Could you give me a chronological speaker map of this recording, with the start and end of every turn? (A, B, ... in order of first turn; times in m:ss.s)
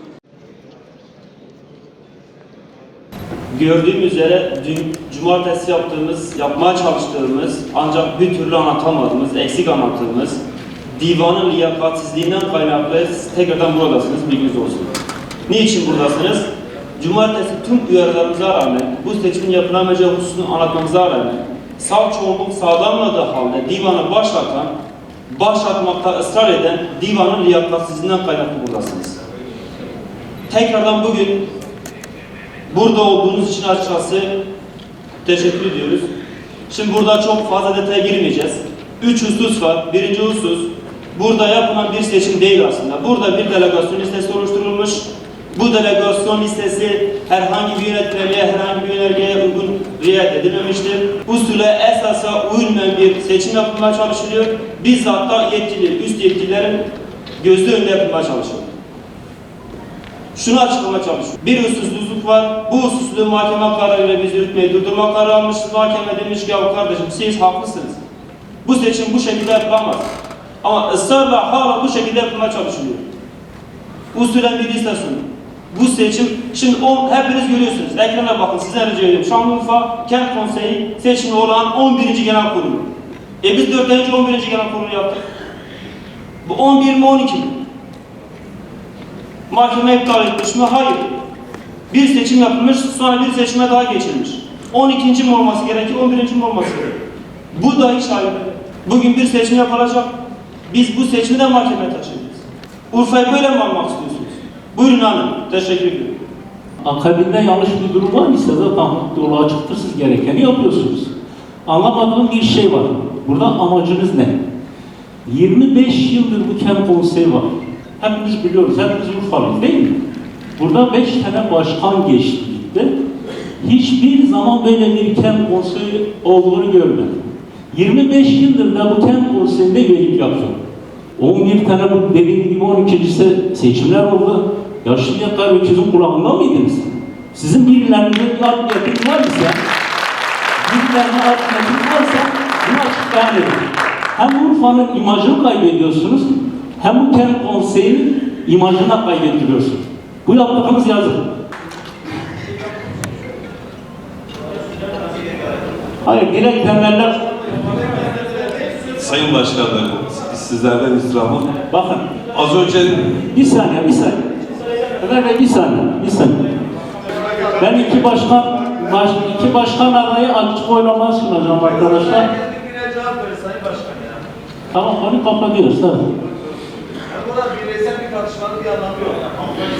0:03.5-0:10.4 A
0:10.9-0:14.9 A
0:15.5-0:24.7 A
0:25.3-0:29.2 A
0:30.5-0:31.4 A
0:32.7-0:34.3 A
0:35.2-0:36.1 A
0:36.7-0:56.8 A
0:57.4-0:58.7 A
1:00.3-1:08.0 A
1:08.6-1:10.1 A
1:10.6-1:13.0 A
1:14.1-1:22.9 A
1:23.4-1:25.2 A
1:26.4-1:27.5 A
1:29.5-1:31.0 A
1:31.9-1:37.0 A
1:37.5-1:40.1 A
1:40.7-1:46.1 A
1:46.8-1:51.1 B
1:51.6-1:54.4 B
1:55.2-1:57.4 B
1:58.0-2:00.0 B
2:00.6-2:02.9 B
2:03.6-2:10.6 B
2:11.2-2:19.6 B
2:20.6-2:31.2 B
2:36.0-2:38.2 B
2:38.9-2:41.5 C
2:41.7-2:42.2 B
2:42.3-2:43.1 C
2:43.1-2:44.3 B
2:45.0-2:46.4 B
2:47.5-2:52.3 B
2:52.5-2:53.9 D
2:54.7-2:56.0 B
2:57.2-2:59.2 D